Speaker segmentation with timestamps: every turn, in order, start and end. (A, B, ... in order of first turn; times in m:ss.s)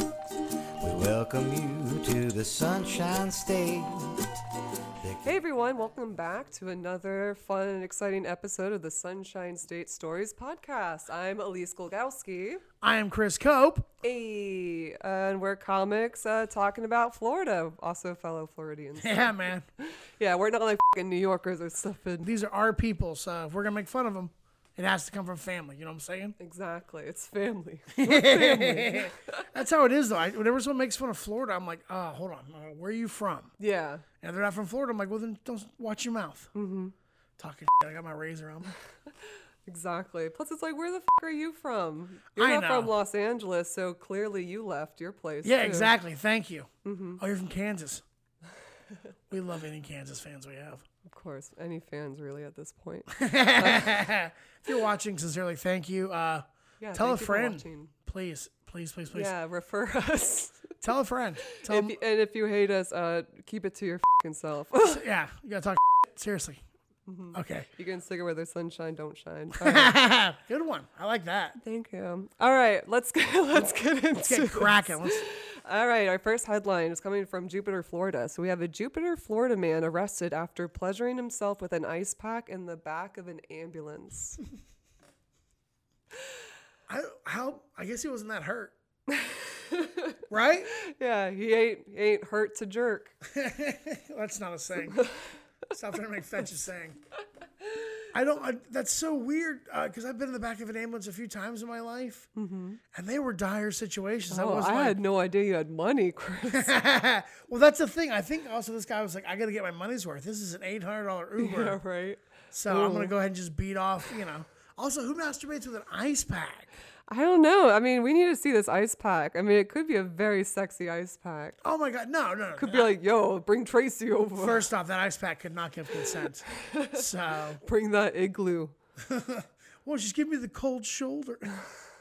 0:00.8-0:04.3 A
0:05.0-0:05.4 A
0:05.2-0:12.6 B
0:12.8-0:13.9 C
0:14.0-0:22.3 B
0:19.0-0:19.6 C
0:22.2-0:26.4 C
0:26.4-0:29.4 B
0:27.9-0:33.5 C
0:33.6-0:34.0 B
0:34.2-0:36.5 C
0:36.5-0:36.9 B
0:37.4-0:38.7 C
0:39.7-0:45.9 B
0:42.3-0:42.9 C
0:45.4-0:48.0 C
0:46.8-0:47.2 B
0:49.3-0:50.8 C
0:51.0-0:54.0 B
0:53.1-0:59.3 C
0:56.8-0:57.9 B
0:59.1-1:00.7 B
1:00.8-1:02.0 C
1:01.5-1:05.0 B
1:04.8-1:06.6 C
1:07.1-1:10.0 B
1:07.3-1:07.7 C
1:09.6-1:11.6 C
1:11.6-1:24.4 B
1:14.2-1:15.2 C
1:26.9-1:28.8 C
1:29.1-1:30.2 B
1:30.3-1:30.7 C
1:30.7-1:33.2 B
1:33.2-1:35.1 C
1:34.9-1:35.2 B
1:35.7-1:37.0 C
1:38.1-1:42.3 C
1:42.4-1:42.8 B
1:42.9-1:45.0 C
1:44.3-1:46.7 B
1:46.4-1:51.8 C
1:51.4-1:53.1 B
1:52.5-1:56.8 C
1:57.1-2:01.6 B
2:01.6-2:02.9 C
2:02.6-2:04.7 B
2:04.4-2:07.6 C
2:06.6-2:07.0 B
2:07.6-2:08.7 B
2:09.0-2:11.7 C